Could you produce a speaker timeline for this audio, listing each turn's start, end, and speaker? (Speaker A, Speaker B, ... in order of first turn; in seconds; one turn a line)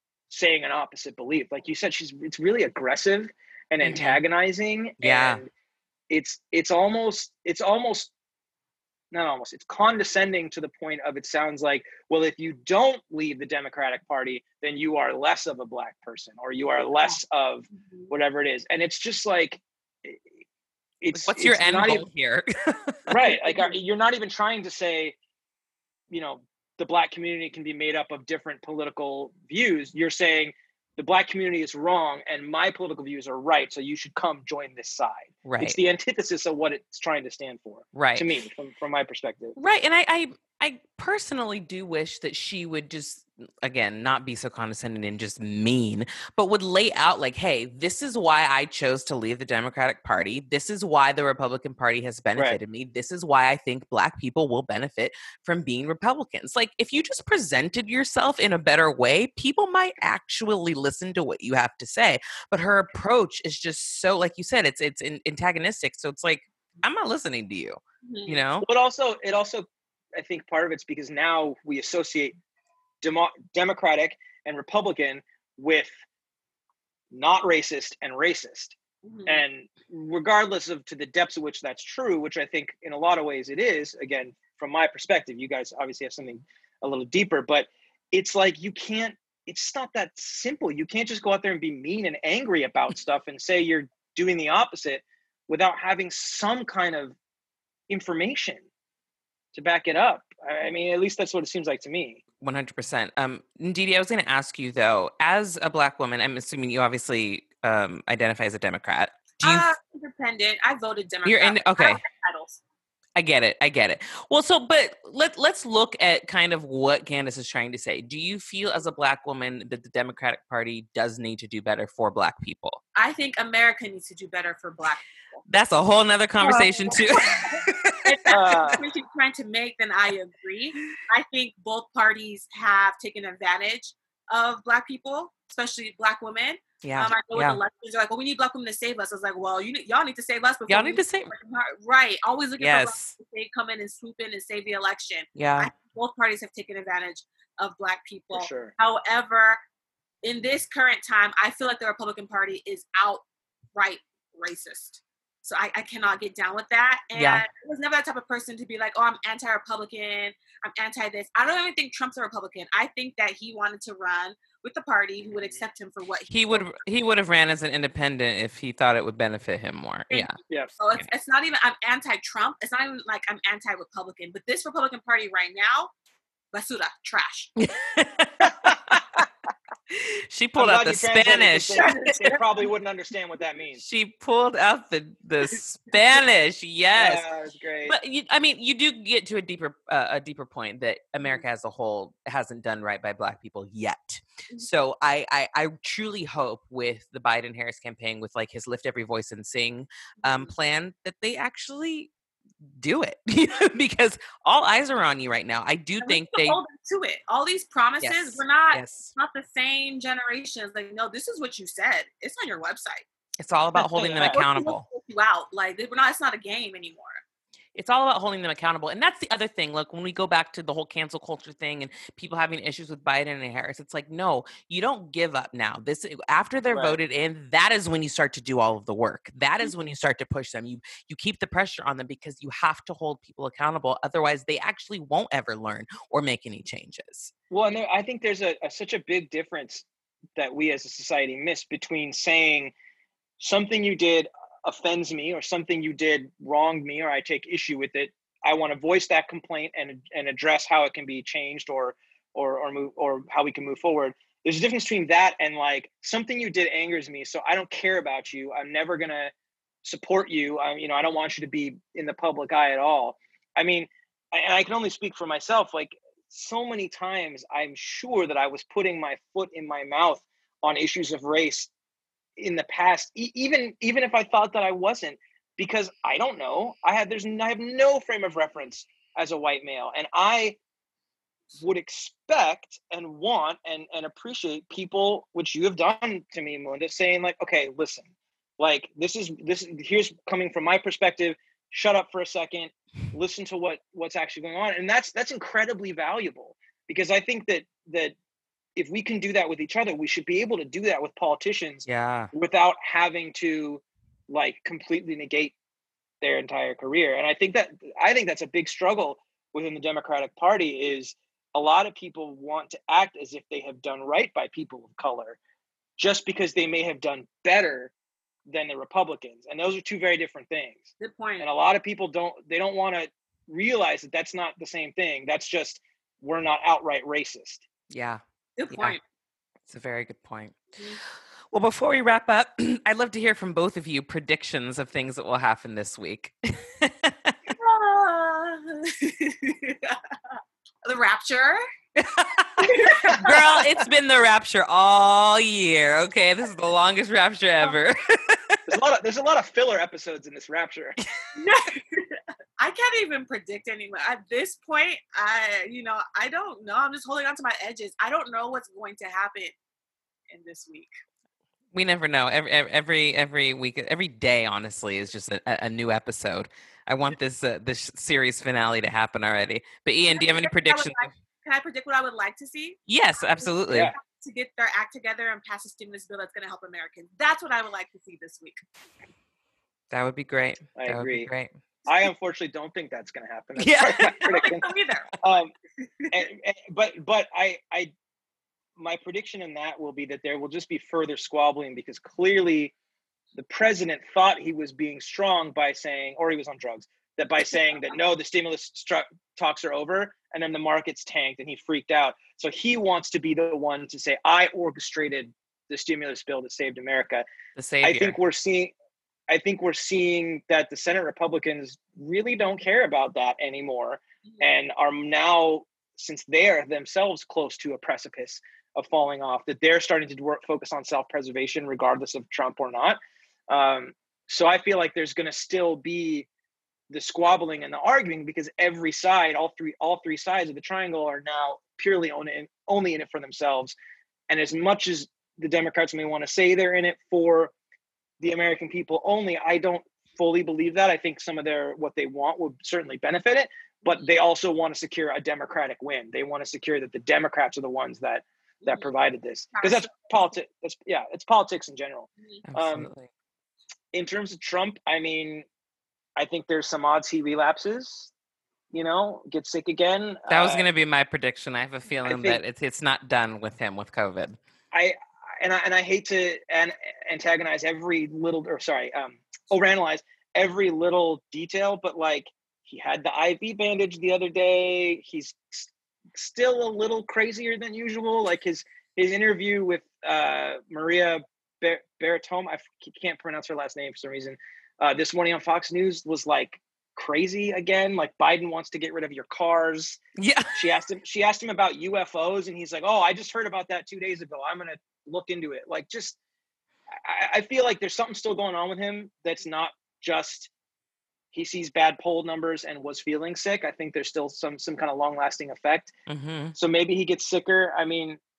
Speaker A: 0.3-5.5
Speaker B: 3.8-4.2
Speaker B: 5.0-5.4
Speaker A: 6.1-8.1
Speaker A: 9.1-20.2
Speaker C: 17.7-18.1
Speaker A: 21.0-22.0
Speaker B: 21.1-23.2
Speaker A: 23.1-25.2
Speaker C: 23.2-23.8
Speaker A: 26.1-39.6
Speaker B: 35.5-35.8
Speaker B: 37.9-38.3
Speaker B: 39.6-68.7
Speaker C: 68.0-68.4
Speaker A: 68.6-72.4
Speaker A: 73.0-76.0
Speaker A: 77.1-78.8
Speaker C: 79.0-79.4
Speaker A: 79.3-97.2
Speaker A: 97.9-98.7
Speaker A: 99.5-102.2
Speaker B: 102.4-109.7
Speaker C: 109.4-112.6
Speaker B: 111.2-112.0
Speaker B: 113.2-122.8
Speaker C: 123.0-125.4
Speaker B: 125.5-128.6
Speaker C: 126.4-149.6
Speaker A: 128.3-128.8
Speaker B: 136.8-137.6
Speaker B: 140.7-141.3
Speaker B: 142.6-143.2
Speaker B: 145.4-145.7
Speaker A: 148.3-148.7
Speaker C: 150.2-153.2
Speaker C: 153.8-166.8
Speaker B: 157.2-157.5
Speaker B: 166.3-170.4
Speaker C: 170.1-175.9
Speaker C: 176.5-177.5
Speaker B: 177.6-179.0
Speaker A: 178.4-179.2
Speaker B: 179.9-182.2
Speaker A: 180.6-183.8
Speaker C: 181.8-182.4
Speaker B: 183.8-187.2
Speaker A: 186.9-188.0
Speaker B: 187.9-202.1
Speaker C: 200.2-200.5
Speaker B: 202.8-206.6
Speaker C: 206.0-213.1
Speaker B: 208.0-209.1
Speaker B: 213.4-214.8
Speaker C: 213.8-217.2
Speaker A: 213.9-214.4
Speaker B: 217.8-237.3
Speaker A: 226.7-227.0
Speaker A: 237.5-239.8
Speaker A: 240.4-242.7
Speaker A: 243.4-259.3
Speaker A: 259.8-271.7
Speaker A: 272.4-280.6
Speaker A: 281.5-298.2
Speaker A: 298.8-305.6
Speaker B: 301.9-302.3
Speaker A: 306.2-315.4
Speaker A: 316.0-317.9
Speaker A: 318.5-327.6
Speaker C: 321.0-321.5
Speaker B: 327.9-329.0
Speaker C: 328.6-329.0
Speaker B: 329.7-330.6
Speaker B: 331.5-337.4
Speaker C: 337.6-340.0
Speaker C: 340.9-341.6
Speaker B: 342.0-348.6
Speaker C: 342.6-343.7
Speaker A: 348.7-351.0
Speaker C: 351.4-359.6
Speaker C: 360.3-360.9
Speaker B: 361.7-371.1
Speaker C: 370.1-378.6
Speaker B: 372.9-373.9
Speaker A: 373.7-373.9
Speaker B: 379.9-381.6
Speaker A: 380.8-381.3
Speaker A: 381.9-385.5
Speaker B: 383.6-384.4
Speaker C: 384.2-385.1
Speaker C: 385.8-386.1
Speaker A: 386.1-387.9
Speaker A: 388.8-392.7
Speaker A: 393.4-407.3
Speaker B: 407.6-408.2
Speaker A: 407.8-408.7
Speaker A: 409.3-426.3
Speaker C: 414.2-414.5
Speaker A: 426.9-433.8
Speaker A: 434.3-437.5
Speaker A: 438.2-452.9
Speaker C: 448.6-448.9
Speaker C: 449.6-449.9
Speaker B: 452.5-453.1
Speaker A: 453.9-455.5
Speaker A: 456.2-458.1
Speaker A: 458.7-460.7
Speaker B: 460.3-464.4
Speaker A: 462.1-462.4
Speaker A: 464.7-490.0
Speaker B: 490.2-490.8
Speaker A: 490.5-496.2
Speaker A: 496.9-500.5
Speaker A: 501.3-505.9
Speaker B: 506.1-506.6
Speaker A: 506.6-508.2